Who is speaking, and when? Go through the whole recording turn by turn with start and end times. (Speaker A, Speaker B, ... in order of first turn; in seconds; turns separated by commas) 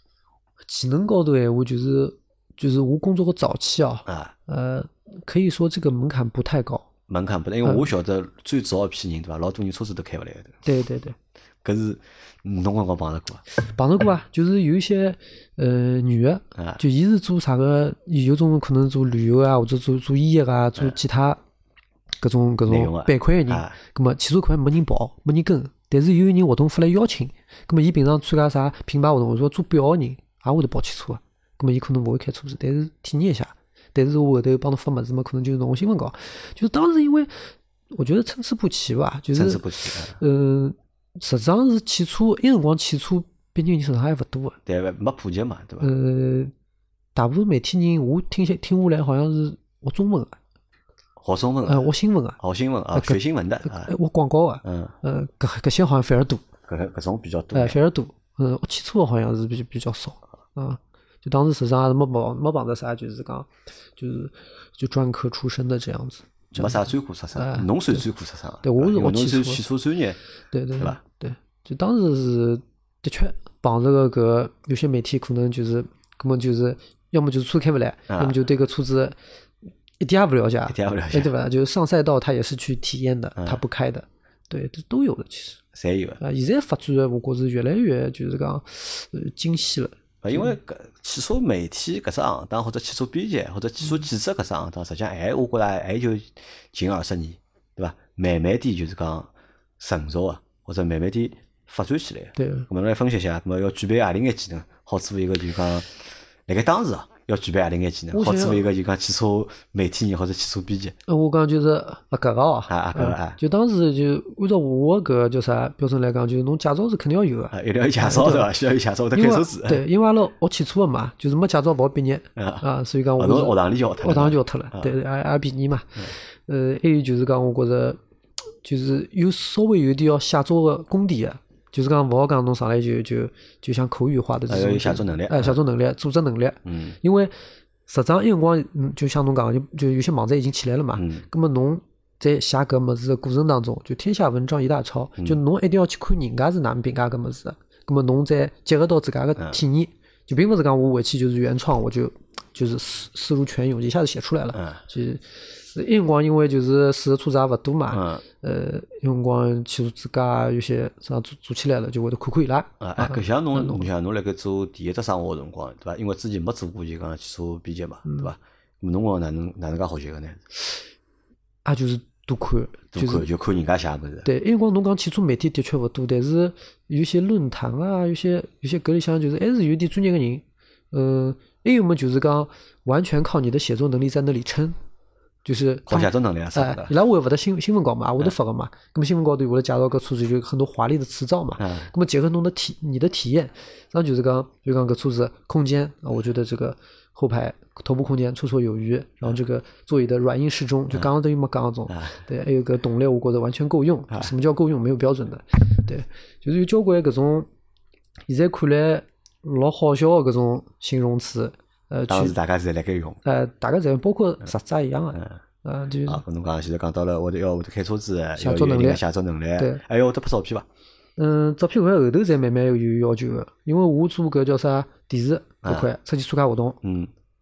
Speaker A: 0.7-6.9, Speaker B: 4.1-4.3, Speaker B: 7.1-10.6, Speaker A: 10.6-11.2, Speaker B: 11.6-13.4, Speaker A: 13.6-21.4, Speaker A: 22.2-37.3, Speaker B: 22.7-23.8, Speaker A: 37.9-39.6, Speaker B: 39.3-40.2, Speaker A: 40.2-44.6, Speaker B: 44.6-45.9, Speaker A: 45.8-46.5, Speaker A: 47.1-50.4, Speaker B: 51.2-53.9, Speaker A: 51.6-52.4, Speaker A: 52.9-56.4, Speaker B: 54.6-54.9, Speaker B: 56.7-57.8, Speaker A: 57.5-66.8, Speaker B: 66.5-70.2, Speaker A: 67.4-68.0, Speaker A: 68.6-69.6, Speaker A: 70.5-79.2, Speaker B: 78.1-78.4, Speaker A: 80.0-85.6, Speaker B: 80.7-81.3, Speaker B: 85.7-86.2, Speaker A: 86.2-90.5, Speaker B: 90.2-111.0, Speaker A: 102.4-102.7, Speaker A: 108.1-108.6, Speaker A: 111.1-118.5, Speaker B: 112.7-113.4, Speaker B: 117.5-119.8, Speaker A: 119.1-128.0, Speaker B: 122.4-122.6, Speaker B: 123.2-124.9, Speaker A: 128.6-137.3, Speaker B: 134.5-135.6, Speaker B: 136.7-137.0, Speaker A: 137.9-163.9, Speaker B: 140.9-141.2, Speaker B: 154.6-154.8, Speaker B: 157.9-158.2, Speaker B: 162.8-170.4, Speaker A: 171.6-173.3, Speaker B: 172.9-174.3, Speaker A: 174.2-184.8, Speaker A: 185.4-207.5, Speaker B: 185.9-186.9, Speaker B: 191.6-191.9, Speaker B: 201.9-202.2, Speaker A: 208.3-212.4, Speaker B: 212.1-213.2, Speaker A: 213.2-216.2, Speaker B: 216.1-220.7, Speaker A: 218.4-219.0, Speaker A: 219.6-219.8, Speaker A: 221.2-226.8, Speaker B: 225.6-225.9, Speaker B: 226.8-227.1